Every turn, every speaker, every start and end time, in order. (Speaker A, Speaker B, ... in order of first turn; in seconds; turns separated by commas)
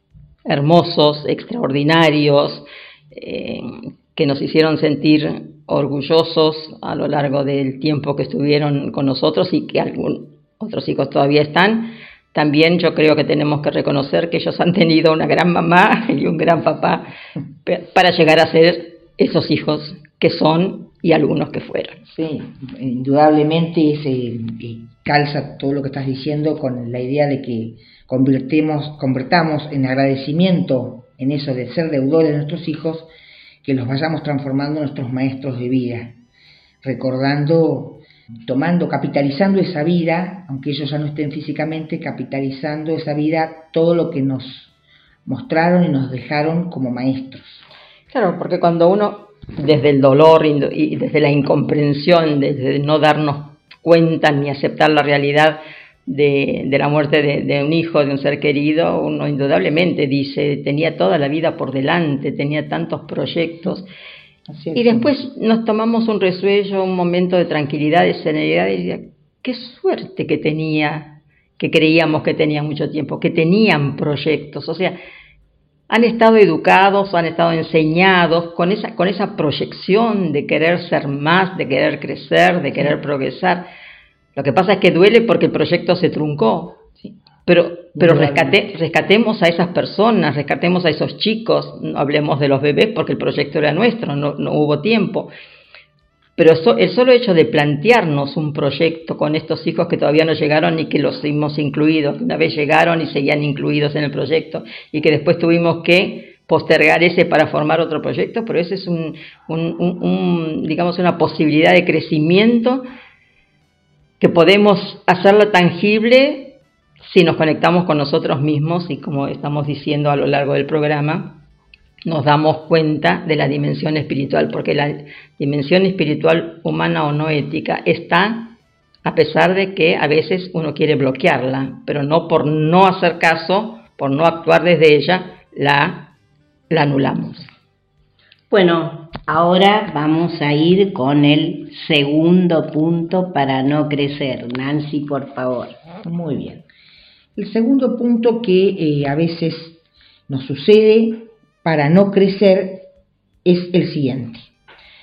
Speaker A: 0.5-17.1, Speaker A: 17.6-22.0, Speaker B: 22.1-33.1, Speaker B: 33.6-36.2, Speaker B: 36.8-44.7, Speaker B: 45.2-47.6, Speaker A: 48.1-63.9, Speaker B: 64.5-65.1, Speaker A: 64.7-75.0, Speaker A: 75.9-83.7, Speaker A: 84.3-86.8, Speaker A: 87.5-95.3, Speaker B: 88.0-88.7, Speaker A: 96.4-112.8, Speaker A: 114.2-121.4, Speaker A: 122.0-136.1, Speaker A: 136.7-137.5, Speaker C: 138.5-145.8, Speaker B: 146.0-146.7, Speaker B: 147.3-152.9, Speaker B: 153.4-154.5